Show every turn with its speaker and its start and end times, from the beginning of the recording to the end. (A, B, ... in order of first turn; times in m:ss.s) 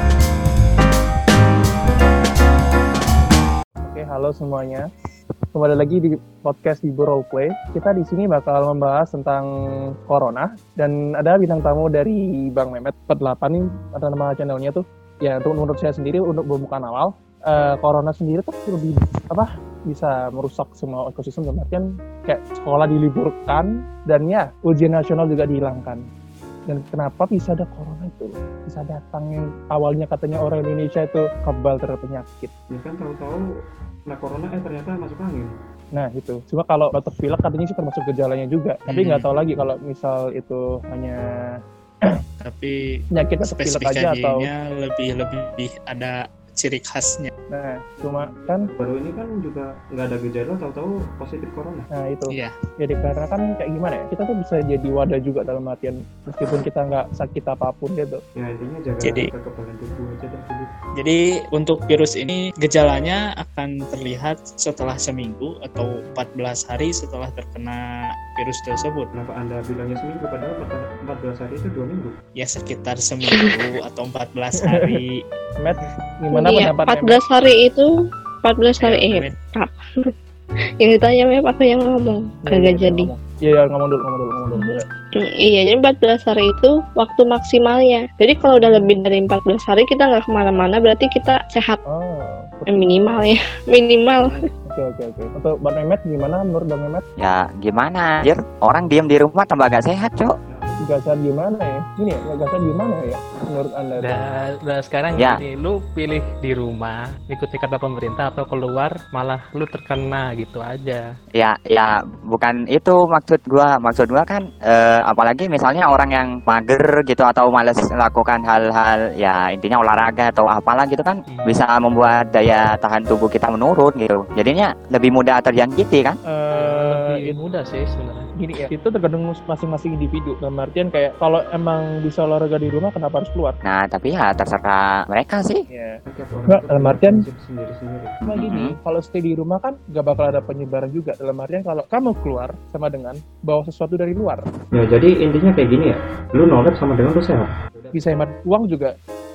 0:03.9-0:04.8 A
0:05.6-0:09.5 A
0:10.1-0:26.0 A
0:26.7-0:32.5 A
0:32.7-0:33.4 B
0:34.1-0:35.5 B
0:35.9-0:41.2 A
0:38.9-0:39.3 C
0:42.4-0:42.8 C
0:43.1-0:44.5 A
0:43.4-0:47.3 C
0:47.5-0:48.7 A
0:48.0-0:51.9 B
0:52.0-0:58.2 A
0:58.4-1:00.7 B
1:01.0-1:07.8 C
1:08.3-1:09.1 C
1:09.2-1:12.1 B
1:12.4-1:15.2 C
1:14.6-1:15.0 A
1:15.6-1:17.2 A
1:16.3-1:17.9 D
1:18.4-1:19.7 D
1:18.8-1:19.4 C
1:20.8-1:23.1 D
1:22.5-1:24.8 A
1:24.5-1:31.8 D
1:28.5-1:28.9 A
1:31.9-1:33.2 A
1:32.7-1:34.4 D
1:34.7-1:37.0 A
1:37.2-1:40.3 E
1:40.5-1:41.2 B
1:40.8-1:44.2 A
1:44.0-1:51.0 F
1:45.1-1:45.4 E
1:51.4-2:06.2 E
2:06.3-2:07.4 A
2:06.6-2:08.3 F
2:08.4-2:13.6 A
2:13.6-2:15.6 E
2:15.7-2:16.0 A
2:16.1-2:18.1 B
2:16.5-2:17.2 A
2:18.3-2:18.8 E
2:18.3-2:24.4 A
2:24.7-2:28.1 B
2:27.9-2:28.9 A